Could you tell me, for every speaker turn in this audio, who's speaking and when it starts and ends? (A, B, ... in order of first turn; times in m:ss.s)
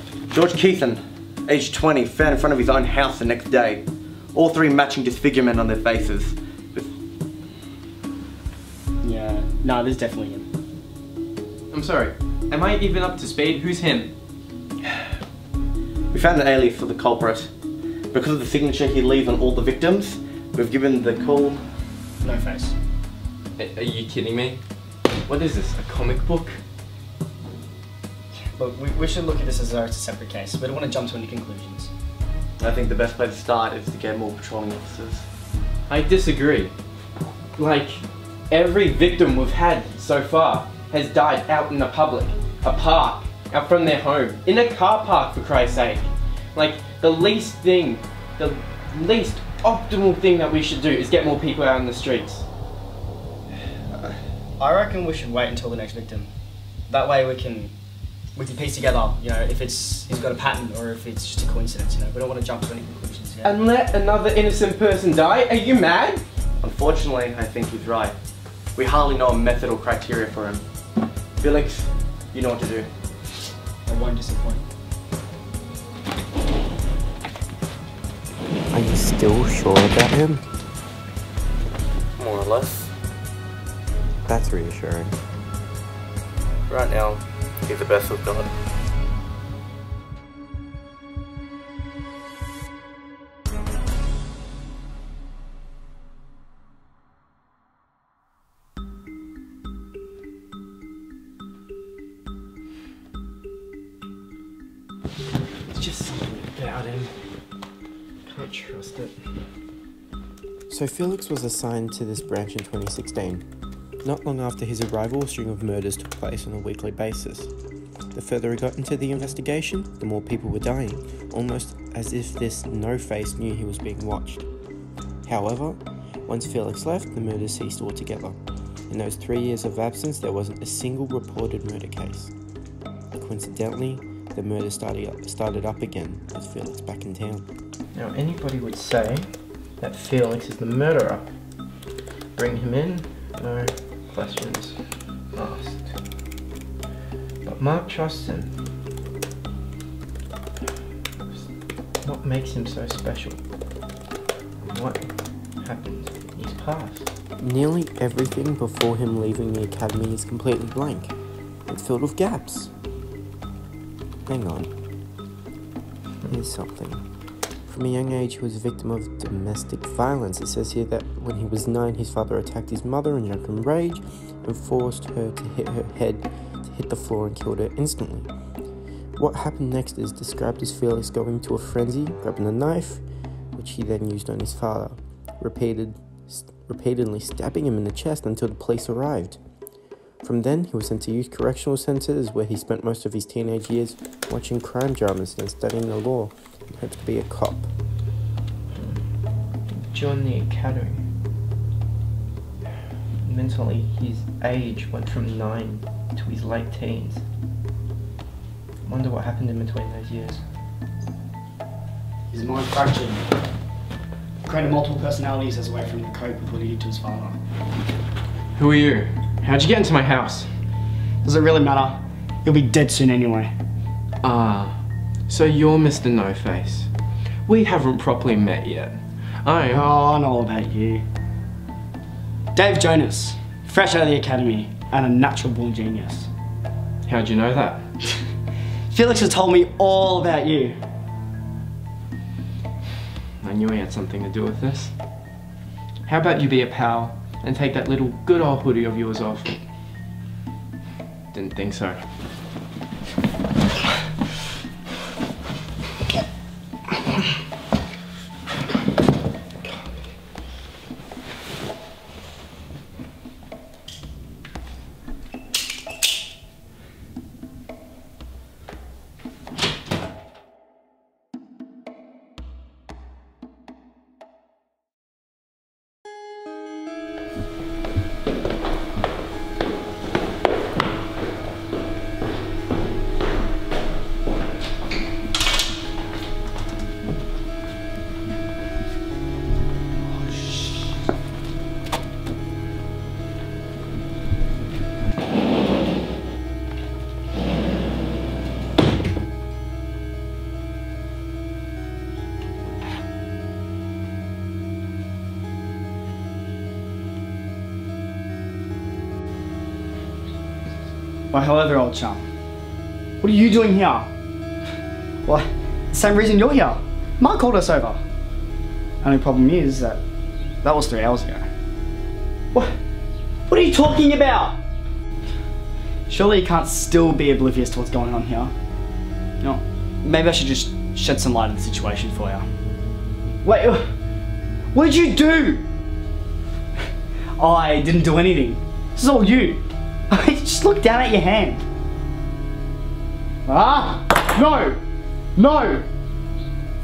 0:00.3-0:06.9 A
0:09.0-0:10.5 B
0:11.7-0:14.1 C
0:16.1-0:17.5 A
0:18.1-0:21.6 A
0:22.2-0:22.8 B
0:23.6-0:24.6 C
0:25.3-0:26.6 C
0:28.3-0:31.9 B
0:32.6-0:35.3 A
0:35.9-0:36.7 C
0:37.6-0:52.5 C
0:54.6-0:56.3 B
0:56.9-0:57.7 B
0:58.4-1:03.6 B
1:03.4-1:06.2 C
1:06.6-1:08.2 A
1:08.8-1:10.6 A
1:11.4-1:12.9 A
1:13.9-1:14.6 B
1:18.7-1:20.4 D
1:22.2-1:22.9 A
1:24.3-1:25.2 D
1:26.7-1:28.5 A
1:45.7-1:47.1 C
1:48.6-1:49.1 C
1:50.7-1:53.4 D
1:54.0-1:57.5 D
1:58.1-2:04.4 D
2:05.2-2:08.4 D
2:08.9-2:12.3 D
2:13.1-2:21.2 D
2:22.4-2:24.8 D
2:25.4-2:25.9 D
2:27.4-2:28.5 D
2:32.0-2:33.4 D
2:34.6-2:35.1 D
2:35.6-2:41.2 D
2:41.7-2:42.7 D
2:44.3-2:44.7 D
2:46.3-2:47.0 D
2:47.7-2:58.3 D
2:59.2-3:03.0 D
3:03.6-3:09.4 D
3:10.2-3:17.7 D
3:18.8-3:19.0 D
3:19.7-3:21.1 D
3:23.2-3:27.2 D
3:28.8-3:30.4 D
3:32.3-3:33.3 B
3:34.4-3:37.4 B
3:38.6-3:40.5 C
3:41.2-3:43.5 B
3:44.2-3:46.9 C
3:47.5-3:49.9 C
3:49.7-3:51.0 B
3:52.5-3:56.3 B
3:57.1-3:57.8 C
3:58.9-4:00.8 B
4:03.4-4:04.9 C
4:06.1-4:09.6 C
4:11.3-4:12.0 C
4:50.3-4:50.8 B
5:11.3-5:12.3 B
5:13.2-5:14.1 B
5:15.2-5:18.0 B
5:19.0-5:20.0 B
5:20.6-5:21.5 B
5:23.5-5:24.6 B
5:26.1-5:28.5 B
5:29.4-5:32.4 B
5:33.4-5:33.9 B
5:34.7-5:35.7 B
5:37.4-5:41.6 B
5:43.5-5:44.8 B
5:45.4-5:45.9 B